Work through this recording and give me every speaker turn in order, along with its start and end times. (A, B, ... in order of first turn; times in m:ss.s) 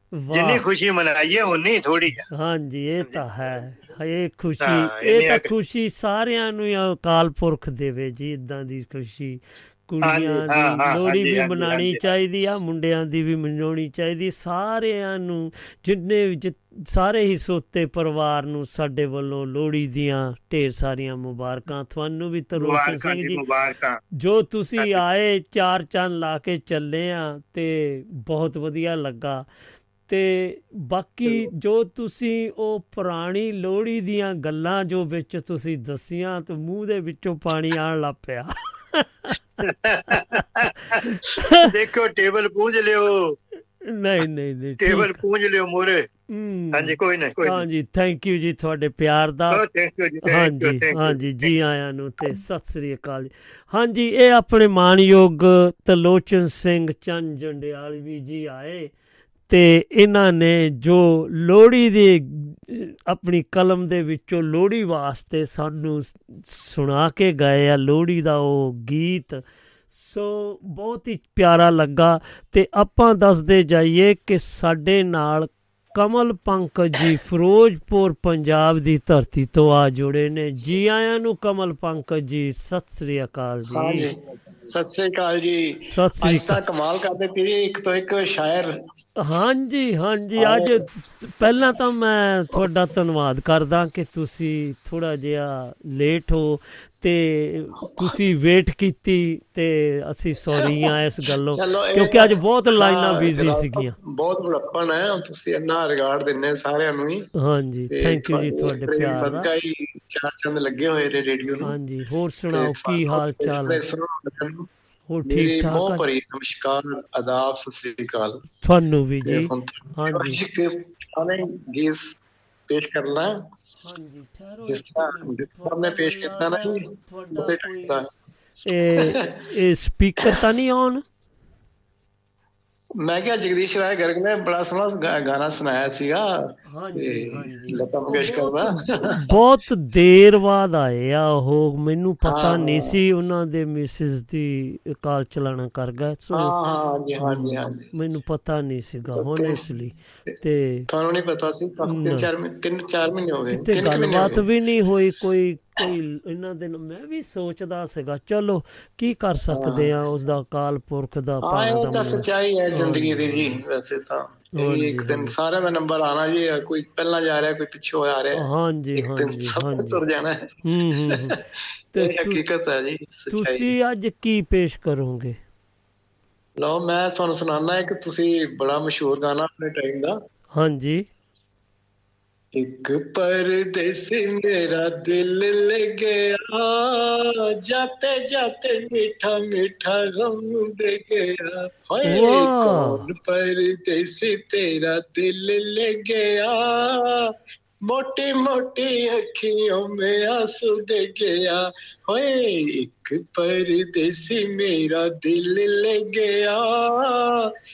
0:00.1-0:00.6 A
0:00.3-0:02.2 B
0:02.3-0:23.4 A
0:04.6-0:05.5 B
0:10.0-0:12.0 B
0:22.6-0:24.0 B
0:24.2-0:29.5 A
0:30.1-0:39.4 A
0:39.6-0:41.0 B
0:40.1-0:41.7 A
0:41.6-0:43.4 B
0:43.8-0:45.2 A
0:44.8-0:46.0 B
0:46.3-0:49.6 A
0:46.8-0:47.6 B
0:49.5-0:51.5 B
0:50.2-0:58.9 A
0:59.5-1:24.1 A
1:23.7-1:28.7 C
1:25.9-1:26.6 A
1:29.2-1:44.0 A
1:30.4-1:30.9 C
1:37.9-1:38.2 C
1:40.6-1:40.9 C
1:41.5-1:47.3 C
1:47.4-1:49.5 A
1:47.9-1:51.8 C
1:51.6-1:53.8 A
1:52.5-1:54.7 C
1:55.1-1:56.1 A
1:55.2-1:58.4 C
1:58.6-2:00.4 A
1:59.2-2:02.2 C
2:02.7-2:03.4 C
2:03.8-2:11.0 A
2:04.7-2:08.1 C
2:09.0-2:09.4 C
2:13.0-2:16.3 C
2:16.7-2:26.6 A
2:17.0-2:19.2 C
2:22.2-2:23.0 C
2:26.3-2:27.9 C
2:27.2-2:30.9 A
2:29.1-2:29.7 C
2:30.9-2:34.4 C
2:31.8-2:32.3 A
2:33.5-2:43.6 A
2:39.5-2:39.9 C
2:41.4-2:48.4 C
2:44.5-2:45.4 A
2:48.4-2:50.0 A
2:49.0-2:51.4 C
2:50.6-2:51.4 A
2:51.9-2:52.4 A
2:51.9-2:53.7 C
2:53.3-2:55.4 A
2:56.6-3:00.2 C
3:00.6-3:01.1 A
3:02.6-3:17.2 C
3:12.0-3:13.1 A
3:17.9-3:27.4 C